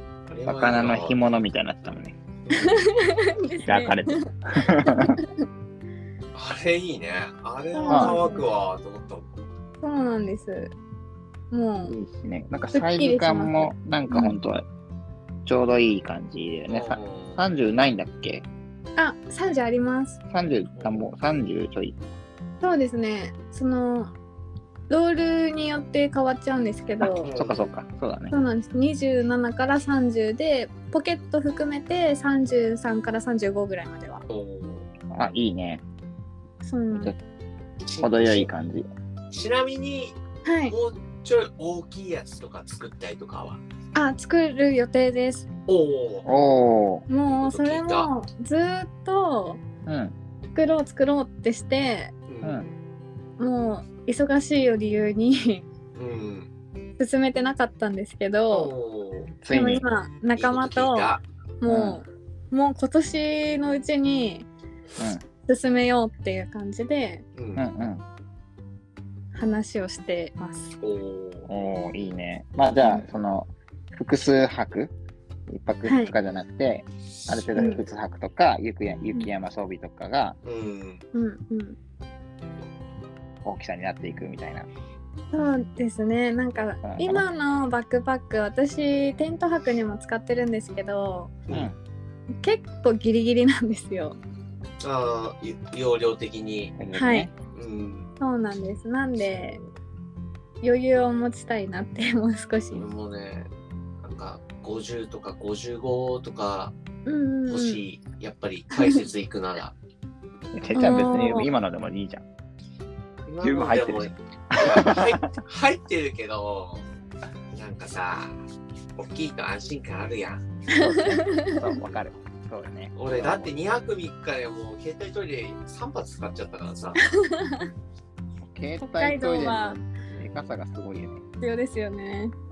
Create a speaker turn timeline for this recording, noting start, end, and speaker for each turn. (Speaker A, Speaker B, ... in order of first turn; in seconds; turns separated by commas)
Speaker A: 0.3-1.2, Speaker B: 0.4-2.2, Speaker A: 2.5-2.8, Speaker C: 2.6-4.3, Speaker B: 3.6-5.2, Speaker C: 4.8-5.2, Speaker A: 6.3-9.4, Speaker C: 7.7-8.4, Speaker B: 7.9-8.2, Speaker C: 9.8-10.7, Speaker C: 11.5-12.0, Speaker B: 11.8-14.6, Speaker C: 12.7-14.3, Speaker B: 15.4-18.4, Speaker A: 16.7-17.4, Speaker C: 19.0-20.2, Speaker B: 20.3-22.0, Speaker A: 20.7-21.1, Speaker C: 22.6-24.1, Speaker C: 24.9-27.3, Speaker B: 27.0-28.3, Speaker A: 27.2-27.7, Speaker C: 28.3-34.2, Speaker A: 34.3-34.9, Speaker B: 35.1-35.8, Speaker C: 36.6-37.1, Speaker B: 36.9-37.2, Speaker A: 37.8-38.5, Speaker B: 38.0-38.9, Speaker A: 39.3-43.6, Speaker C: 40.4-40.7, Speaker C: 43.9-45.5, Speaker A: 45.7-46.3, Speaker B: 46.2-47.0, Speaker C: 47.1-49.6, Speaker A: 47.3-48.1, Speaker B: 49.9-50.1, Speaker C: 50.5-52.1, Speaker A: 52.3-52.7, Speaker C: 53.4-55.6, Speaker A: 55.9-56.5, Speaker C: 57.0-58.7, Speaker A: 58.5-59.4, Speaker B: 59.4-59.8, Speaker C: 59.5-64.5, Speaker A: 60.4-61.2, Speaker B: 61.6-62.0, Speaker C: 65.5-67.2, Speaker A: 67.3-67.7, Speaker B: 67.5-68.0, Speaker C: 69.3-70.8, Speaker A: 70.8-71.5, Speaker B: 71.5-74.9, Speaker C: 72.8-73.0, Speaker B: 75.5-80.3, Speaker C: 75.8-76.1, Speaker A: 77.2-77.5, Speaker C: 77.5-77.8, Speaker A: 80.4-81.0, Speaker C: 81.1-81.8, Speaker B: 83.4-84.7, Speaker C: 85.3-91.3, Speaker B: 86.8-87.2, Speaker C: 92.4-94.2, Speaker A: 94.8-96.8, Speaker B: 96.8-97.3, Speaker C: 96.9-97.3, Speaker A: 97.5-98.1, Speaker C: 98.2-99.6, Speaker A: 99.2-99.7, Speaker C: 100.6-102.9, Speaker A: 102.7-103.5, Speaker A: 104.0-106.7, Speaker C: 107.0-107.8, Speaker A: 107.5-109.7, Speaker C: 108.7-109.0, Speaker B: 110.5-112.2, Speaker C: 110.7-111.5, Speaker A: 113.2-116.8, Speaker B: 113.4-115.2, Speaker A: 117.5-118.3, Speaker A: 119.0-120.5, Speaker B: 120.7-123.5, Speaker C: 120.7-121.6, Speaker A: 122.9-127.0, Speaker C: 127.0-127.7, Speaker B: 128.4-131.2, Speaker C: 128.8-129.8, Speaker C: 131.4-132.3